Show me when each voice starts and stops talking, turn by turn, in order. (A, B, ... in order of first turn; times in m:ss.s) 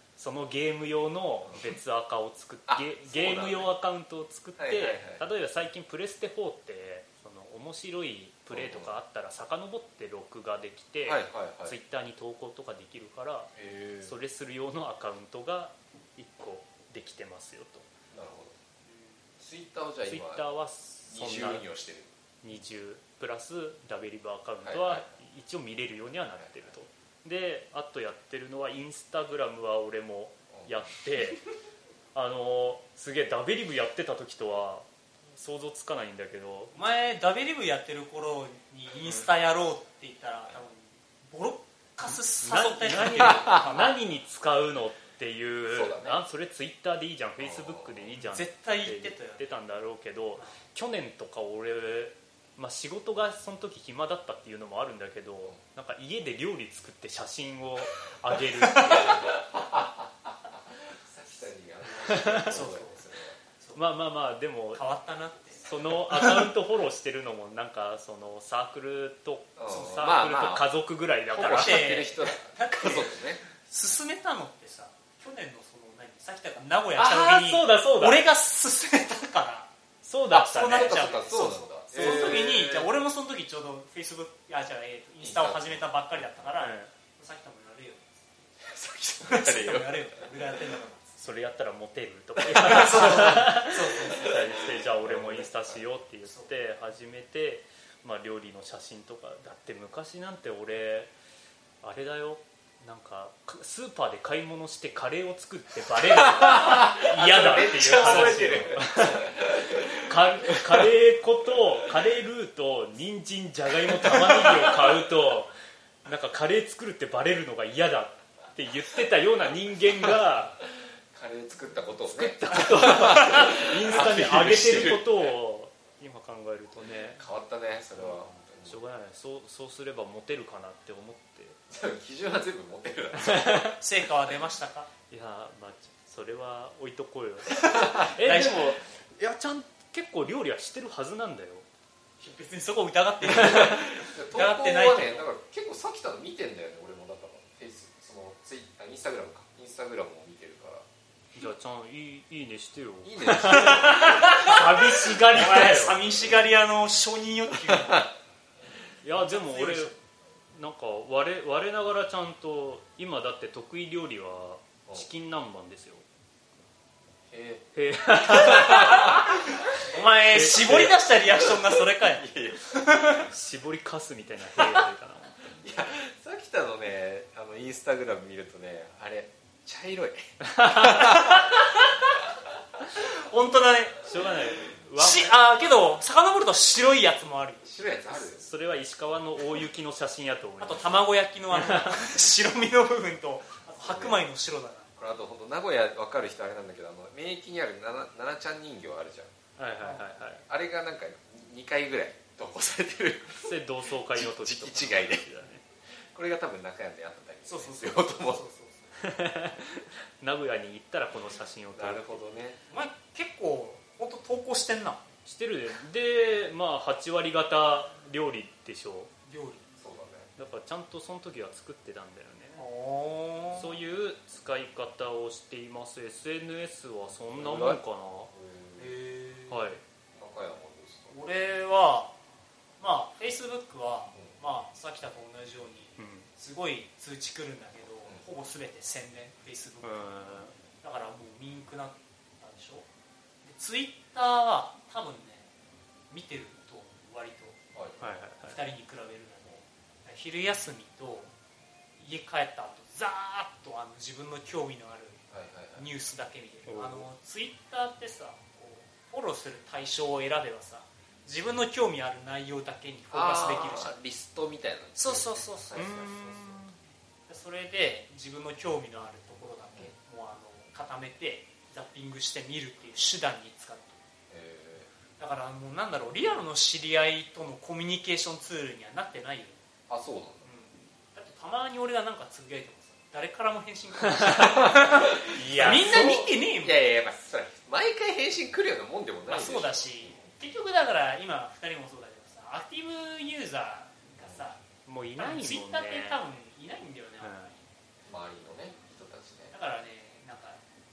0:00.2-0:13.5 A
0:02.7-0:03.7 B
0:04.6-0:05.2 B
0:08.5-0:08.9 B
0:11.0-0:11.8 B
0:13.5-0:14.2 B
0:14.0-0:17.9 A
0:18.1-0:18.6 B
0:18.9-0:19.2 C
0:19.4-0:20.5 B
0:20.0-0:21.6 A
0:21.1-0:22.1 B
0:22.4-0:31.4 A
0:24.6-0:25.1 B
0:26.3-0:26.8 B
0:30.5-0:30.8 B
0:32.1-0:36.8 A
0:36.7-0:44.0 C
0:42.4-0:59.4 A
0:45.6-0:46.2 B
0:47.4-0:48.2 B
0:48.2-0:49.4 C
0:59.3-1:00.4 B
1:00.9-1:03.4 B
1:02.1-1:02.5 A
1:02.4-1:03.0 C
1:03.7-1:04.8 A
1:04.7-1:06.3 C
1:05.6-1:11.8 A
1:09.6-1:10.7 B
1:11.3-1:13.4 B
1:11.3-1:19.7 C
1:16.9-1:18.2 A
1:20.0-1:21.4 A
1:20.3-1:28.5 C
1:20.3-1:22.9 B
1:22.0-1:22.4 A
1:25.2-1:26.5 B
1:26.6-1:26.9 A
1:28.6-1:30.6 B
1:29.2-1:31.2 C
1:31.2-1:41.1 A
1:32.4-1:35.8 B
1:32.5-1:34.3 C
1:36.2-1:36.5 C
1:41.8-1:55.5 A
1:46.2-1:50.9 B
1:47.8-1:48.4 C
1:54.0-1:54.7 B
1:56.0-2:00.6 A
2:01.1-2:05.4 B
2:02.0-2:07.2 A
2:07.1-2:08.8 B
2:08.0-2:11.6 A
2:11.7-2:13.7 B
2:13.2-2:13.8 A
2:13.8-2:14.9 C
2:15.1-2:21.6 A
2:17.6-2:18.8 C
2:17.7-2:18.1 B
2:22.2-2:25.3 C
2:23.4-2:30.8 B
2:31.3-2:36.0 A
2:33.0-2:34.4 B
2:33.5-2:38.1 C
2:37.7-2:38.0 B
2:39.0-2:39.9 A
2:39.1-2:40.0 C
2:40.5-2:46.0 A
2:47.3-2:49.3 B
2:47.7-2:49.4 A
2:49.8-2:53.2 C
2:50.3-2:51.0 A
2:51.3-2:52.7 B
2:53.3-2:55.4 A
2:55.6-3:01.5 B
3:00.5-3:01.0 A
3:01.2-3:01.6 C
3:03.0-3:04.0 C
3:04.0-3:05.3 A
3:04.9-3:07.7 C
3:07.6-3:08.5 B
3:08.3-3:12.0 A
3:10.6-3:14.9 C
3:13.8-3:14.3 B
3:15.0-3:19.3 B
3:19.6-3:20.4 A
3:19.8-3:20.1 C
3:20.5-3:25.3 B
3:23.4-3:25.6 A
3:25.9-3:28.4 B
3:27.4-3:29.1 C
3:29.0-3:32.3 A
3:31.8-3:32.6 B
3:32.7-3:35.0 C
3:35.2-3:39.1 A
3:39.2-3:39.7 C
3:39.8-3:40.3 B
3:40.4-3:42.6 A
3:42.6-3:43.7 C
3:43.5-3:48.3 A
3:47.3-3:48.9 B
3:48.8-3:49.7 C
3:49.5-3:49.8 A
3:50.1-3:51.5 B
3:51.1-3:52.2 C
3:52.8-4:02.8 C
3:56.0-3:56.3 A
3:59.8-4:00.5 A
4:03.4-4:05.5 C
4:06.1-4:07.6 C
4:07.7-4:08.0 B
4:08.0-4:08.6 A
4:08.4-4:11.3 C
4:12.0-4:15.2 C
4:15.3-4:15.9 B
4:15.7-4:24.0 C
4:16.6-4:17.1 A
4:23.1-4:26.6 B
4:25.0-4:25.9 C
4:25.7-4:26.8 A
4:27.3-4:34.0 C
4:34.3-4:34.9 B
4:35.2-4:39.6 C
4:39.9-4:40.4 B
4:40.4-4:46.8 C
4:44.5-4:50.4 B
4:45.2-4:46.3 A
4:49.2-4:54.6 C
4:54.2-4:54.5 B
4:54.8-4:56.2 A
4:55.2-4:57.6 C
4:57.2-4:57.5 A
4:58.0-4:59.5 B
4:59.5-5:00.6 C